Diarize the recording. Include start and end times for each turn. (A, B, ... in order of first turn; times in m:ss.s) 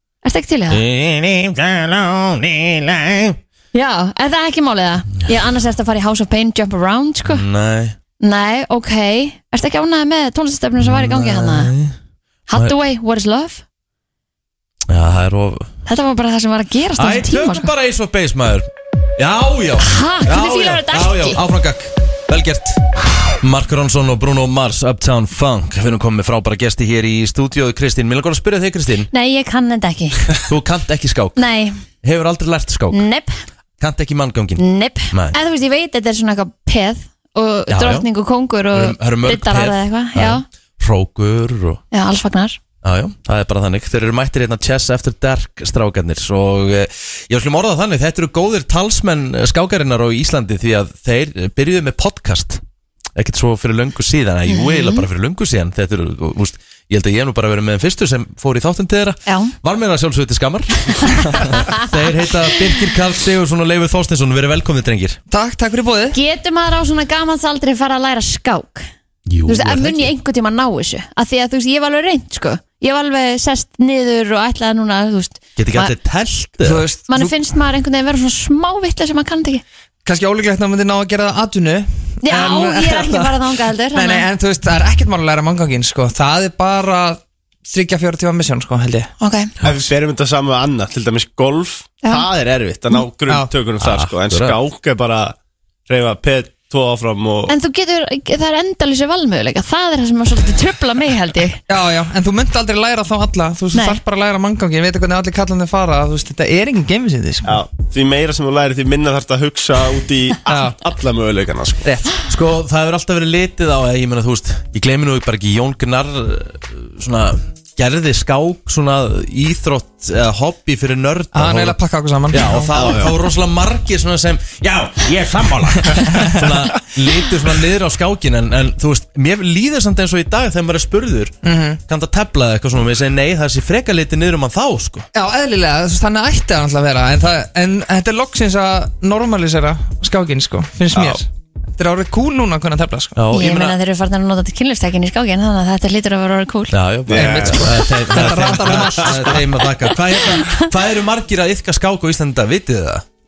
0:00.2-0:00.8 A
0:00.7-0:03.4 B
0:03.7-0:07.4 A
0:07.2-0:08.0 B
0:08.2-0:11.7 A
0:10.8-0:12.0 B
0:12.5-0:13.6 A
0:14.9-0:15.7 B
0:15.9-0:17.7 A
0:17.0-0:22.8 B
0:19.8-0:21.4 A
0:23.4-0:29.1 B
0:29.1-0:30.3 A
0:30.4-0:31.4 B
0:31.4-0:31.8 A
0:32.0-0:33.0 B
0:32.9-0:33.5 A
0:33.8-0:35.4 B
0:34.6-0:40.4 A
0:37.7-0:38.1 B
0:38.7-0:41.8 B
0:41.9-0:42.6 A
0:42.8-0:52.6 B
0:53.2-1:05.2 B
0:54.5-0:55.0 A
0:59.3-0:59.6 A
1:01.4-1:01.8 A
1:05.3-1:06.2 C
1:06.1-1:08.9 A
1:09.3-1:10.1 B
1:09.5-1:15.9 A
1:15.6-1:16.9 B
1:16.6-1:17.3 C
1:17.1-1:19.6 A
1:20.0-1:23.4 C
1:22.2-1:24.3 A
1:24.0-1:29.1 C
1:29.2-1:29.5 A
1:29.6-1:35.4 D
1:33.8-1:34.6 B
1:35.9-1:37.5 D
1:37.5-1:41.6 A
1:41.7-1:47.6 C
1:43.7-1:44.0 A
1:47.4-1:51.9 D
1:50.5-1:50.8 C
1:51.8-1:52.2 C
1:52.3-2:01.8 B
2:01.3-2:02.9 C
2:02.3-2:11.4 B
2:02.7-2:03.2 D
2:05.9-2:06.4 C
2:11.4-2:11.8 C
2:11.9-2:15.1 B
2:15.2-2:21.3 C
2:20.9-2:21.2 D
2:21.8-2:23.2 C
2:23.2-2:23.8 B
2:23.3-2:26.8 A
2:26.7-2:33.0 B
2:27.1-2:29.4 D
2:27.2-2:29.5 C